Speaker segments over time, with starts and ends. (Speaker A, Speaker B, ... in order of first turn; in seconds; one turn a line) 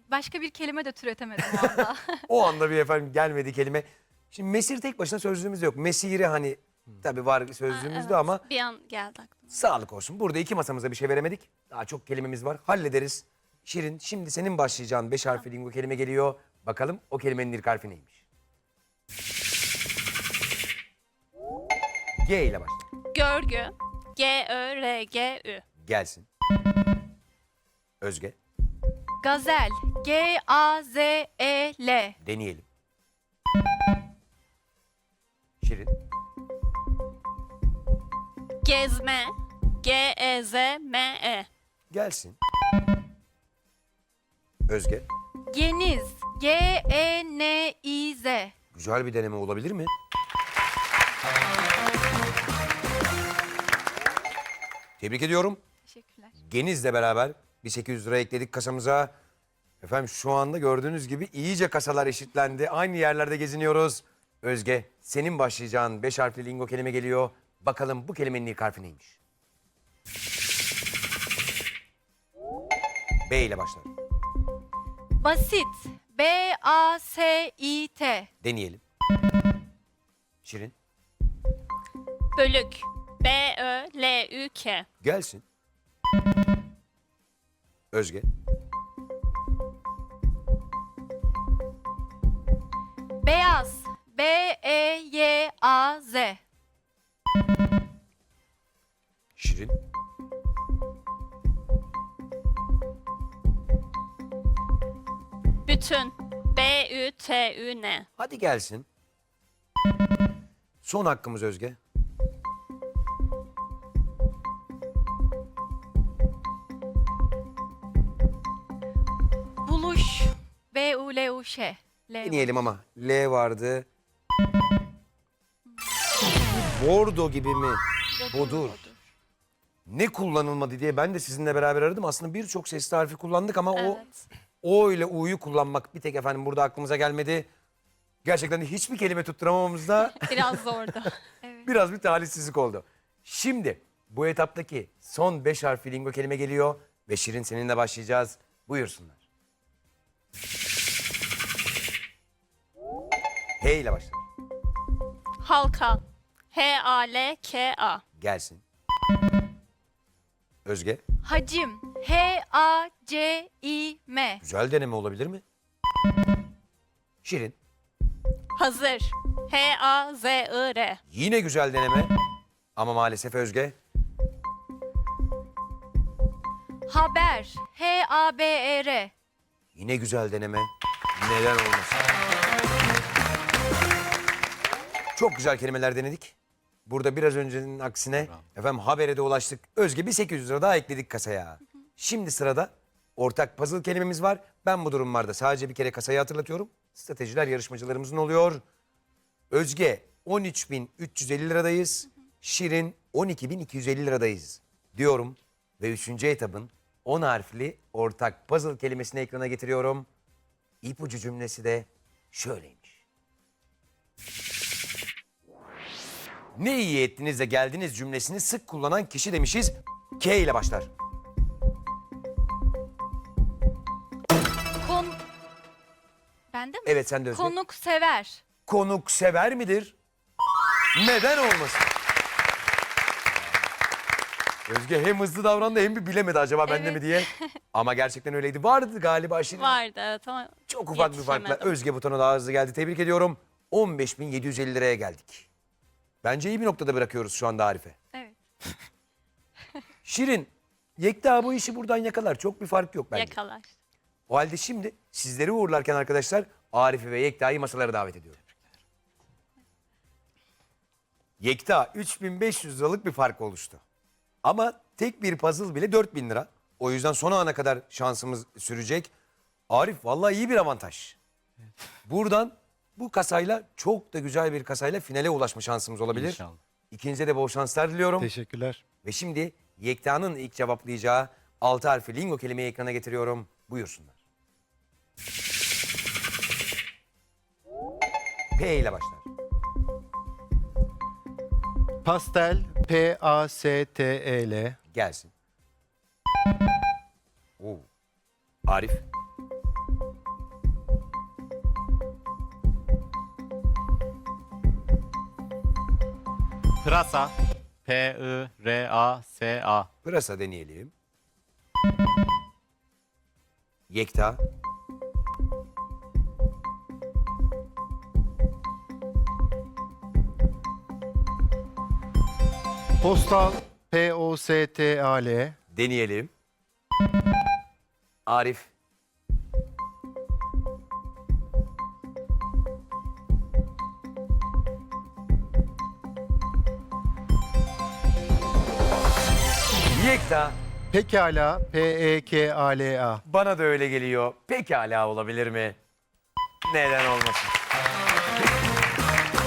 Speaker A: 0.1-2.2
Speaker B: 1.4-8.4
Speaker C: 7.7-9.6
Speaker B: 9.5-18.2
Speaker B: 22.2-22.9
Speaker C: 23.1-25.6
Speaker B: 25.8-26.3
Speaker B: 28.0-28.4
Speaker A: 29.2-32.1
Speaker B: 32.2-32.7
Speaker B: 35.6-35.9
Speaker C: 38.6-41.5
Speaker B: 41.9-42.4
Speaker B: 44.7-45.1
Speaker A: 45.5-48.5
Speaker B: 48.7-49.9
Speaker B: 55.0-55.6
Speaker A: 55.9-56.3
Speaker B: 56.4-59.1
Speaker B: 59.8-69.2
Speaker B: 73.3-73.9
Speaker A: 75.2-78.3
Speaker B: 78.4-78.8
Speaker B: 80.4-80.7
Speaker C: 82.4-84.9
Speaker B: 85.0-85.4
Speaker B: 87.9-88.3
Speaker A: 93.2-96.4
Speaker B: 99.4-99.8
Speaker C: 105.7-108.1
Speaker B: 108.2-108.9
Speaker B: 110.8-111.8
Speaker A: 119.6-122.7
Speaker B: 122.2-123.9
Speaker B: 126.4-128.9
Speaker C: 128.2-129.0
Speaker B: 129.9-134.0
Speaker C: 133.7-134.3
Speaker B: 134.6-137.5
Speaker B: 138.2-140.7
Speaker C: 140.1-141.2
Speaker A: 141.4-141.7
Speaker B: 141.6-149.2
Speaker B: 153.6-154.2
Speaker C: 155.4-158.0
Speaker B: 158.2-158.6
Speaker B: 160.7-161.0
Speaker A: 161.2-164.4
Speaker B: 164.4-165.4
Speaker B: 167.2-167.6
Speaker C: 168.6-171.0
Speaker B: 171.1-172.1
Speaker B: 172.8-173.8
Speaker A: 176.9-179.1
Speaker B: 179.8-182.0
Speaker B: 185.2-186.3
Speaker B: 186.9-198.6
Speaker B: 199.5-210.1
Speaker B: 210.8-213.0
Speaker B: 216.6-220.9
Speaker A: 224.8-225.2
Speaker A: 226.5-228.4
Speaker B: 226.8-227.5
Speaker B: 228.7-229.9
Speaker B: 230.9-231.9
Speaker B: 234.7-239.8
Speaker C: 239.5-241.8
Speaker B: 240.7-245.5
Speaker B: 246.2-248.0
Speaker A: 248.1-248.8
Speaker B: 250.0-253.4
Speaker C: 253.1-253.7
Speaker B: 254.3-258.4
Speaker B: 261.4-263.8
Speaker B: 264.4-269.1
Speaker B: 269.7-271.2
Speaker B: 272.1-278.3
Speaker D: 276.1-276.6
Speaker E: 278.2-278.8
Speaker B: 279.0-284.2
Speaker B: 288.6-289.3
Speaker E: 292.0-294.8
Speaker B: 294.9-295.3
Speaker B: 297.6-297.9
Speaker B: 298.7-299.0
Speaker D: 306.8-307.3
Speaker D: 307.9-309.9
Speaker B: 310.0-310.9
Speaker B: 313.9-314.4
Speaker E: 323.0-325.6
Speaker B: 325.7-326.3
Speaker B: 328.3-328.7
Speaker B: 339.9-340.6
Speaker E: 340.9-343.2
Speaker B: 343.2-345.8
Speaker B: 346.6-347.5